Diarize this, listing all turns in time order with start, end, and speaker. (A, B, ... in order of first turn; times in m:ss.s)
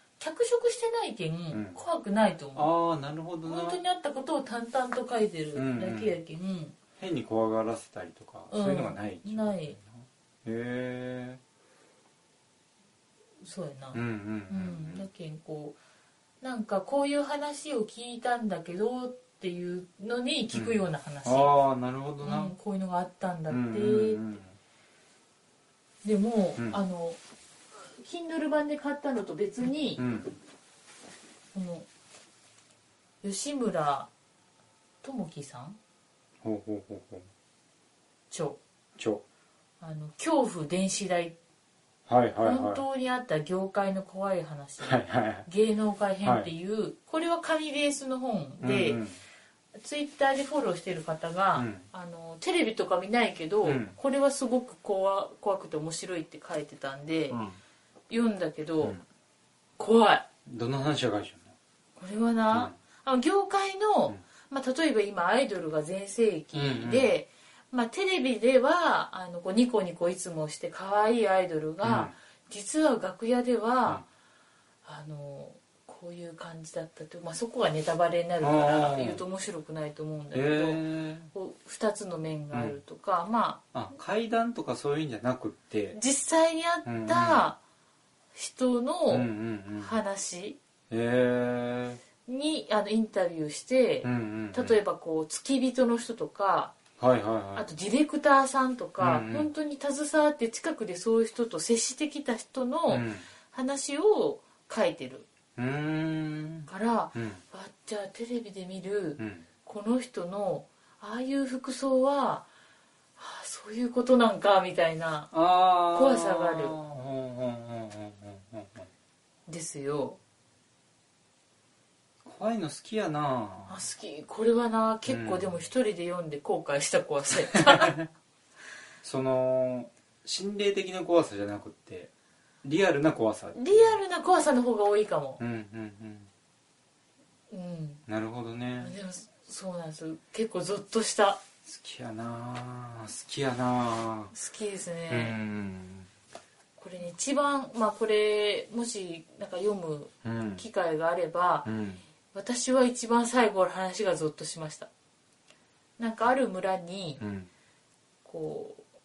0:00.2-0:02.7 A
0:01.5-0:01.8 B
0:02.5-0:03.8 B
0:03.4-0:06.7 A
0:05.5-0:06.2 B
0:07.0-0:11.4 B
0:08.5-0:09.8 A
0:13.4-0:15.8 A
0:13.9-0:15.0 B
0:16.4-0:21.5 A
0:20.5-0:22.5 B
0:22.2-0:24.2 A
0:23.5-0:24.6 B
0:26.0-0:27.2 A
0:27.8-0:30.0 A
0:30.0-0:30.3 B
0:31.5-0:31.9 A
0:33.2-0:34.1 A
0:35.0-0:35.8 A
0:36.4-0:37.3 B
0:38.3-0:38.6 A
0:39.0-0:39.2 B
0:39.8-0:41.4 A
0:42.1-0:42.8 B
0:42.4-0:49.0 A
0:44.8-0:45.5 B
0:46.2-0:46.5 B
0:48.6-0:49.2 B
0:49.8-0:57.4 A
0:51.5-0:51.8 B
0:53.6-0:54.0 B
0:57.3-0:57.6 B
0:58.1-0:59.0 A
0:59.8-1:00.2 A
1:00.4-1:01.5 B
1:02.0-1:14.0 A
1:06.5-1:07.1 B
1:11.8-1:12.1 B
1:14.8-1:23.6 A
1:18.4-1:19.2 B
1:20.3-1:21.3 B
1:22.5-1:22.8 B
1:23.7-1:26.0 B
1:25.9-1:27.6 A
1:26.8-1:27.5 B
1:28.3-1:30.6 A
1:29.1-1:30.0 B
1:30.9-1:32.0 B
1:32.2-1:36.8 A
1:34.0-1:34.8 B
1:37.0-1:37.6 B
1:37.6-1:45.2 A
1:39.0-1:39.5 B
1:42.9-1:43.3 B
1:45.6-1:47.4 B
1:46.7-1:52.5 A
1:49.2-1:49.4 B
1:53.2-1:55.3 A
1:55.3-1:58.9 B
1:55.9-1:56.8 A
1:59.5-2:00.2 A
2:02.2-2:03.8 B
2:03.7-2:08.0 A
2:05.1-2:05.5 B
2:07.6-2:08.0 B
2:09.0-2:12.1 B
2:12.6-2:14.0 B
2:13.5-2:15.4 A
2:15.4-2:16.3 B
2:17.5-2:18.0 A
2:18.1-2:18.9 B
2:18.8-2:21.4 A
2:21.6-2:24.3 B
2:24.3-2:25.4 A
2:25.1-2:26.1 B
2:26.8-2:31.7 A
2:30.2-2:30.6 B
2:31.6-2:32.0 B
2:32.3-2:34.9 A
2:36.0-2:37.2 A
2:37.2-2:37.5 B
2:38.2-2:38.8 A